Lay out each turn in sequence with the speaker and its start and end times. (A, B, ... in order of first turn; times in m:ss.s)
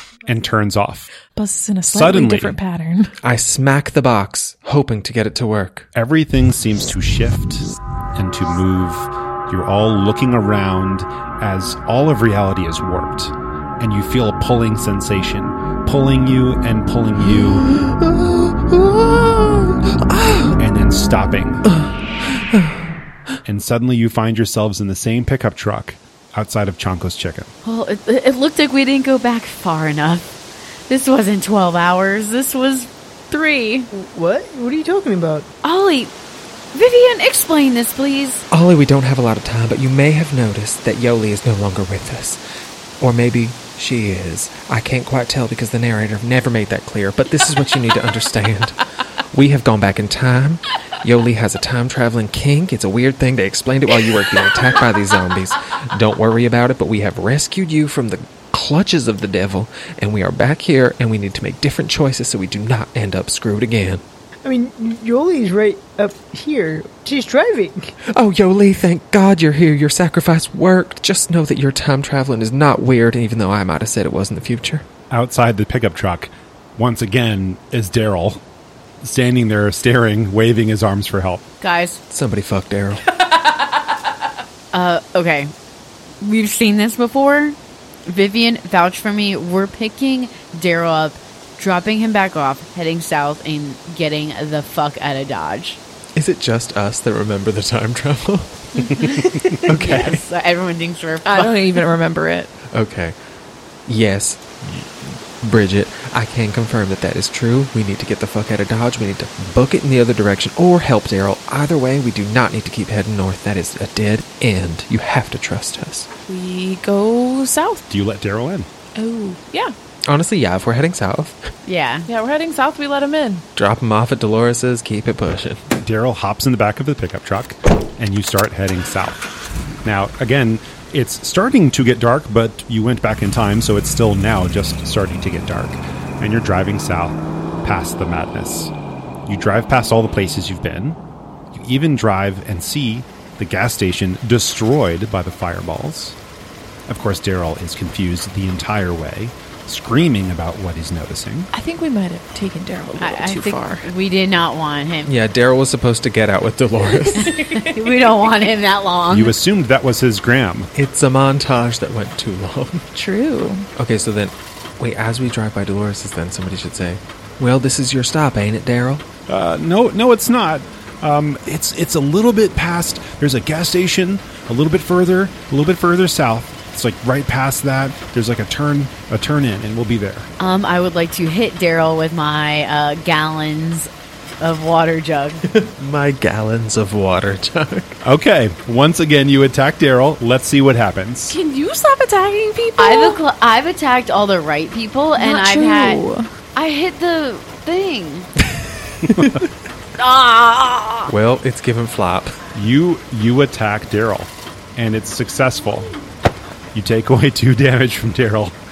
0:00.3-0:01.1 A
0:01.3-0:03.2 B
0:01.9-0:02.6 A
0:03.2-0:05.9 C
0:05.9-0:17.7 A
0:17.2-0:20.6 C
0:20.6-0:21.6 A
0:21.6-0:22.9 C
0:23.4-0:27.5 A
0:27.6-0:33.9 D
0:33.9-0:35.5 E
0:35.6-0:36.1 D
0:36.7-0:38.4 D
0:38.5-0:42.4 C
0:43.0-0:48.8 C
0:49.3-1:04.0 C
1:04.4-1:07.9 E
1:08.1-1:14.8 C
1:15.1-1:18.4 A
1:19.0-1:21.4 A
1:21.6-1:22.0 D
1:22.1-1:23.0 C
1:24.7-1:25.5 D
1:26.2-1:35.8 D
1:36.1-1:40.2 C
1:38.8-1:41.6 D
1:41.2-1:42.5 B
1:42.7-1:43.1 C
1:43.9-1:56.1 C
1:56.3-1:57.9 B
1:57.9-1:58.7 A
1:59.0-1:59.7 B
2:00.1-2:01.5 C
2:01.6-2:02.1 D
2:02.1-2:03.4 B
2:03.5-2:05.6 C
2:05.8-2:09.2 A
2:09.8-2:18.7 A
2:19.2-2:21.0 A
2:21.5-2:26.2 A
2:26.9-2:31.5 A
2:31.5-2:33.9 B
2:33.0-2:35.1 D
2:35.0-2:37.3 C
2:37.1-2:39.4 D
2:37.3-2:37.7 B
2:39.1-2:40.7 A
2:40.7-2:42.9 C
2:42.9-2:43.7 B
2:43.8-2:49.0 C
2:49.3-3:00.3 A
3:00.4-3:03.9 D
3:04.4-3:05.4 D
3:05.4-3:08.0 C
3:08.0-3:11.4 A
3:11.3-3:13.2 B
3:12.8-3:16.0 D
3:15.2-3:16.3 B
3:16.5-3:18.3 D
3:19.0-3:19.4 C
3:20.0-3:21.1 D
3:21.1-3:22.4 C
3:22.5-3:25.9 A
3:26.7-3:28.6 A